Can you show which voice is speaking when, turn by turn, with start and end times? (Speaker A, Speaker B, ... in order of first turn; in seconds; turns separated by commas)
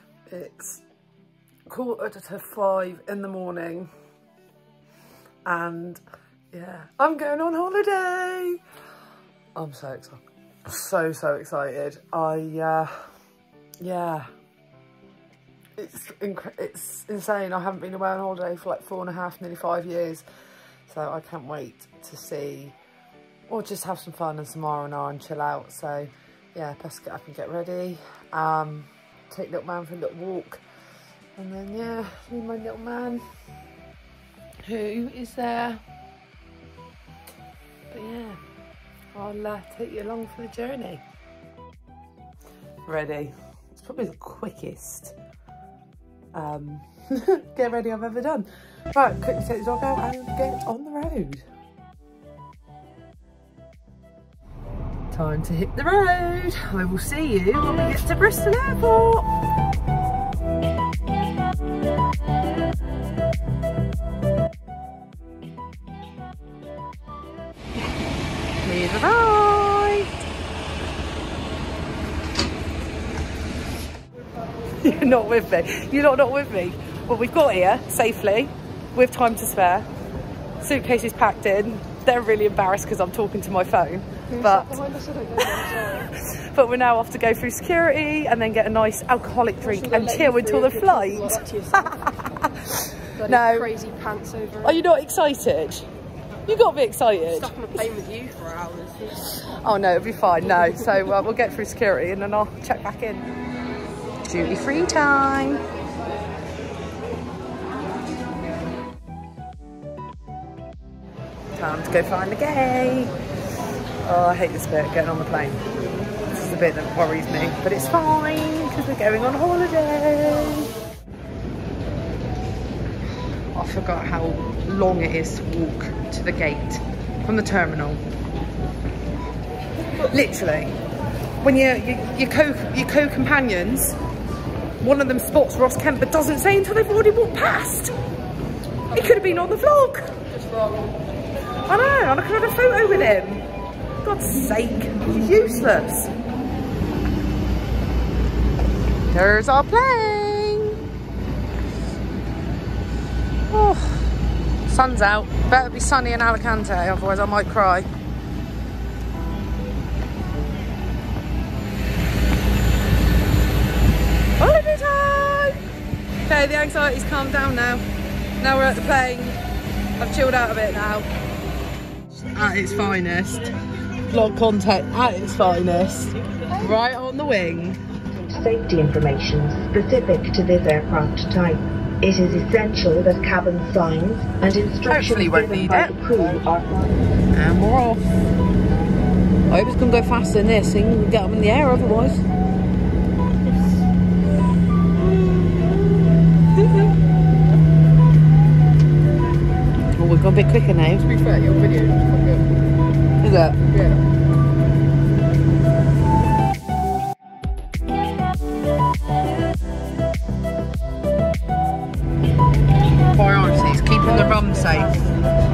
Speaker A: 0.3-0.8, Speaker A: 1.7-3.9, Speaker A: 5.5-6.0, Speaker A: 6.5-8.6, Speaker A: 9.6-13.1, Speaker A: 13.8-14.3, Speaker A: 15.8-20.2, Speaker A: 20.9-22.8, Speaker A: 23.5-30.6, Speaker A: 31.4-33.2, Speaker A: 34.6-35.8, Speaker A: 37.9-38.4, Speaker A: 39.1-41.0, Speaker A: 42.9-45.2, Speaker A: 46.3-51.5, Speaker A: 55.1-59.3, Speaker A: 68.6-70.1, Speaker A: 74.8-79.9, Speaker A: 80.6-84.8, Speaker B: 84.3-86.1, Speaker A: 85.4-93.7, Speaker B: 89.6-92.1, Speaker B: 93.2-94.8, Speaker A: 94.6-95.9, Speaker A: 96.5-97.8, Speaker B: 97.3-99.2, Speaker A: 99.2-103.3, Speaker A: 104.2-105.6, Speaker A: 111.5-113.2, Speaker A: 114.0-115.6, Speaker A: 116.3-120.7, Speaker A: 123.5-128.0, Speaker A: 130.1-130.8, Speaker A: 131.4-134.0, Speaker A: 134.8-137.9, Speaker B: 138.9-139.3, Speaker A: 138.9-140.2, Speaker B: 140.2-141.0, Speaker A: 141.7-143.5, Speaker A: 144.0-146.1, Speaker A: 149.1-150.8, Speaker A: 153.5-157.9, Speaker A: 164.4-165.6, Speaker A: 166.2-167.8, Speaker A: 168.4-169.4, Speaker A: 170.0-171.1, Speaker A: 172.3-173.5, Speaker A: 174.1-177.8, Speaker C: 178.3-187.0, Speaker A: 184.9-186.0, Speaker A: 187.3-188.1, Speaker A: 189.5-192.2, Speaker A: 196.5-196.9, Speaker A: 200.0-201.1, Speaker B: 201.0-202.6, Speaker A: 203.2-203.6, Speaker B: 203.7-204.0, Speaker A: 213.1-214.9, Speaker B: 214.0-215.2